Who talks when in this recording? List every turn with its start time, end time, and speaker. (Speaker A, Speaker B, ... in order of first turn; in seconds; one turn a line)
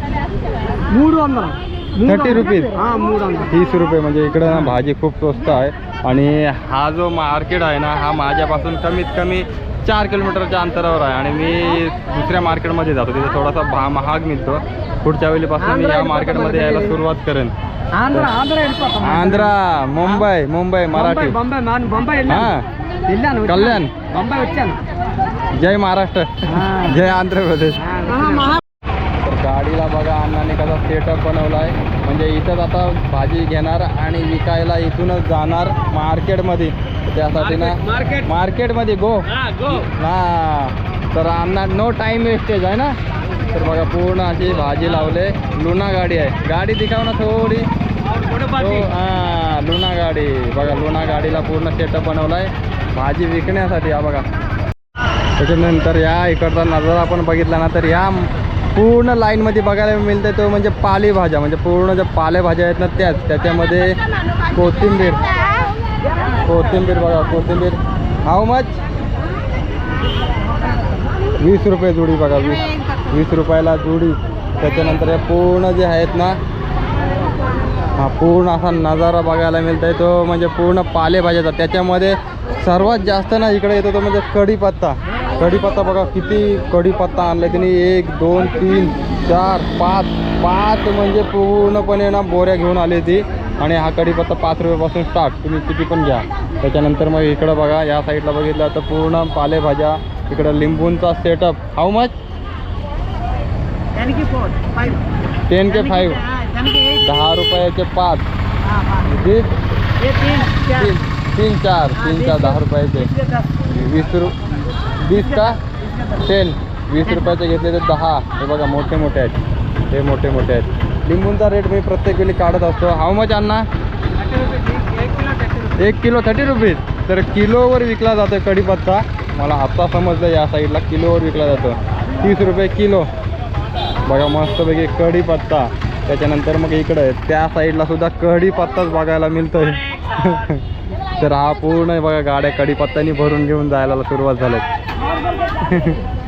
Speaker A: 0.9-3.5
Speaker B: 2.0-2.8
Speaker B: 3.5-17.5
Speaker A: 15.6-16.9
Speaker A: 17.9-19.5
Speaker B: 19.0-21.4
Speaker A: 20.9-22.5
Speaker B: 22.3-22.6
Speaker A: 23.1-24.8
Speaker B: 23.4-23.9
Speaker B: 25.6-27.8
Speaker A: 26.5-27.0
Speaker A: 27.8-28.6
Speaker B: 29.2-43.0
Speaker B: 43.5-47.7
Speaker B: 48.5-54.2
Speaker B: 55.4-64.0
Speaker B: 64.5-65.2
Speaker B: 66.4-68.8
Speaker B: 71.4-76.4
Speaker B: 78.0-102.1
Speaker A: 104.0-104.7
Speaker B: 105.5-106.3
Speaker B: 106.8-108.2
Speaker B: 109.0-109.5
Speaker B: 110.5-113.1
Speaker B: 113.6-114.3
Speaker B: 115.0-115.6
Speaker B: 116.2-119.4
Speaker B: 119.9-123.7
Speaker B: 125.8-133.1
Speaker B: 134.0-140.6
Speaker B: 141.2-144.6
Speaker B: 145.6-146.0